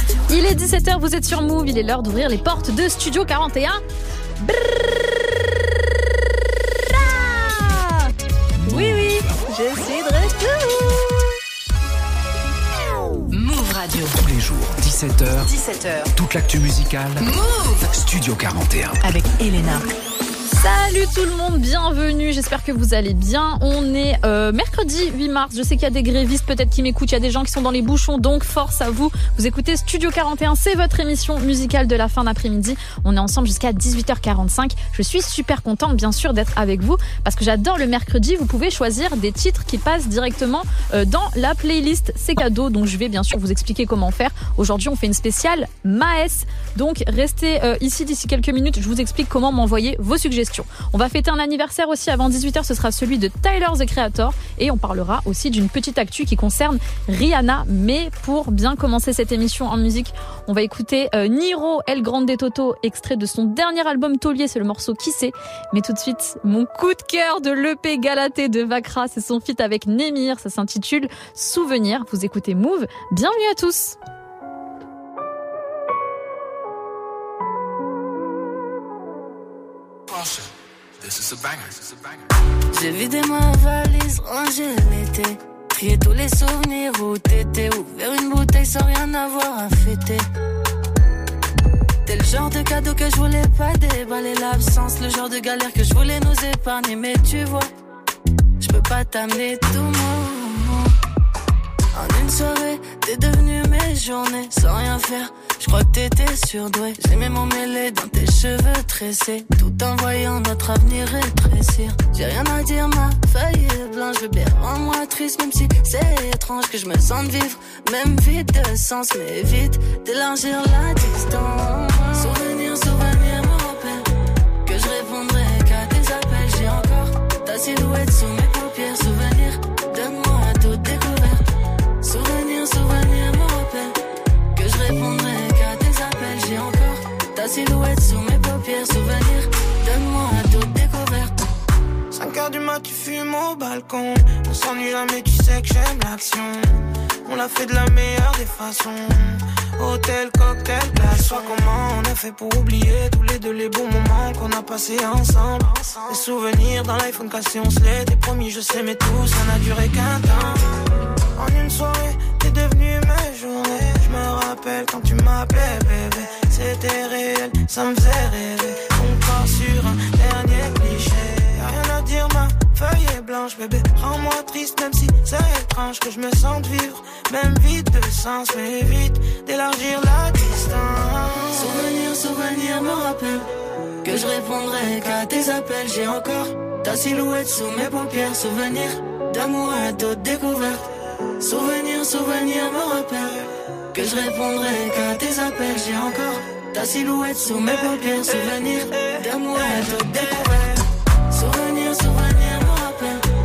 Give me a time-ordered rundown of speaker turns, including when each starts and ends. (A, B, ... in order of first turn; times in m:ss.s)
0:00.3-0:03.8 A
0:04.4-0:05.1 A
0:06.9-0:08.1 A
0:08.6-0:09.4 B
0:08.7-0:11.2 A
0:13.3-0:14.2 C
0:14.2-0:15.5 B
0:15.4-0:16.1 C
0:16.2-0:17.3 B
0:17.2-0:18.0 C
0:17.9-0:19.0 B
0:19.0-0:19.8 C
0:20.6-1:14.0 A
1:22.7-1:30.3 D
1:32.1-1:37.7 D
1:38.6-1:40.9 D
1:42.0-2:04.0 D
2:04.7-2:11.4 D
2:12.0-2:14.0 D
2:14.6-2:21.3 D
2:22.2-2:26.7 E
2:27.3-2:40.6 E
2:41.4-3:01.2 E
3:01.5-3:03.4 D
3:04.0-3:10.8 D
3:11.4-3:13.4 D
3:13.9-3:20.8 D
3:21.3-3:23.2 D